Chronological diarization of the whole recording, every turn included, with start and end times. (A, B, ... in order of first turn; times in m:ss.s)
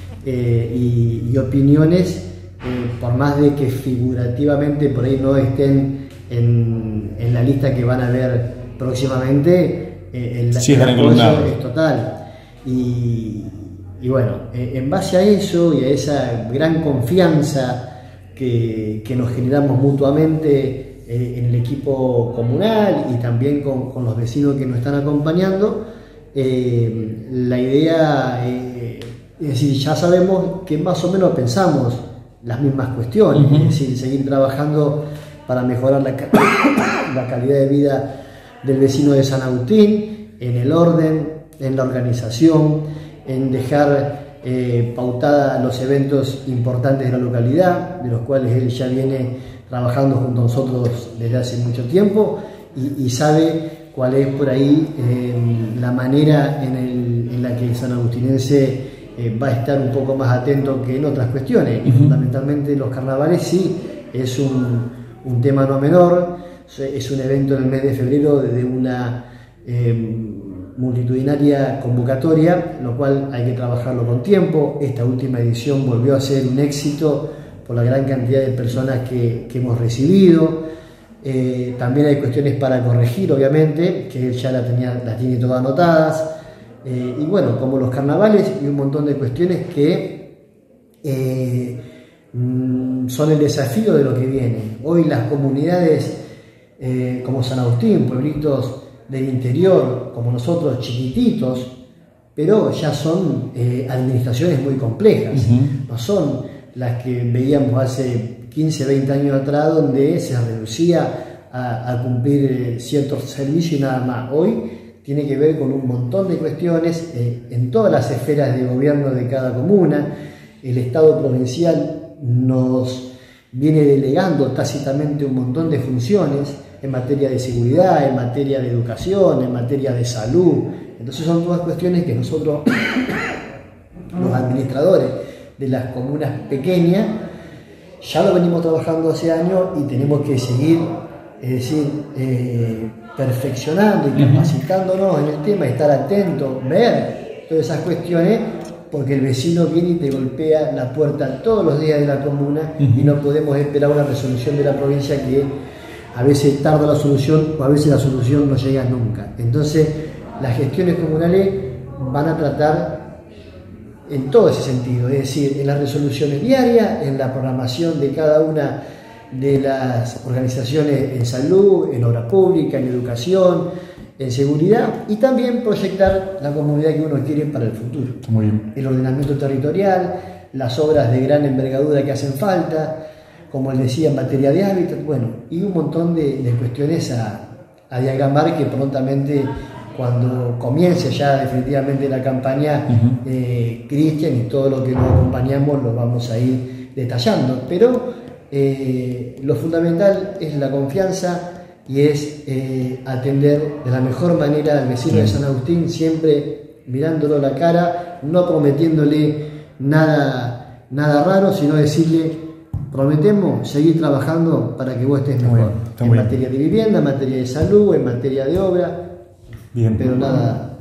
0:00.2-0:12.1 A
0:10.5-0:11.5 B
0:12.6-0:17.8 A
0:18.3-0:25.8 A
0:26.3-0:38.0 A
0:33.3-0:33.7 B
0:38.6-1:20.6 A
1:01.9-1:02.2 B
1:21.2-1:26.3 A
1:26.8-1:30.2 A
1:31.0-1:31.8 A
1:32.3-1:36.2 A
1:36.8-1:41.7 A
1:42.3-2:00.1 A
1:45.3-1:45.8 B
2:00.6-2:12.7 A
2:14.1-2:17.1 A
2:18.0-2:20.9 A
2:21.4-2:35.5 A
2:24.2-2:24.5 B
2:32.8-2:33.1 B
2:36.1-2:43.0 A
2:44.1-2:48.8 A
2:49.3-2:53.7 A
2:54.2-2:58.2 A
2:58.2-2:58.6 B
2:58.7-3:03.0 A
3:03.5-3:32.4 A
3:25.1-3:25.4 B
3:32.9-3:39.0 A
3:35.4-3:36.3 B
3:39.7-3:40.5 B
3:39.9-3:40.7 A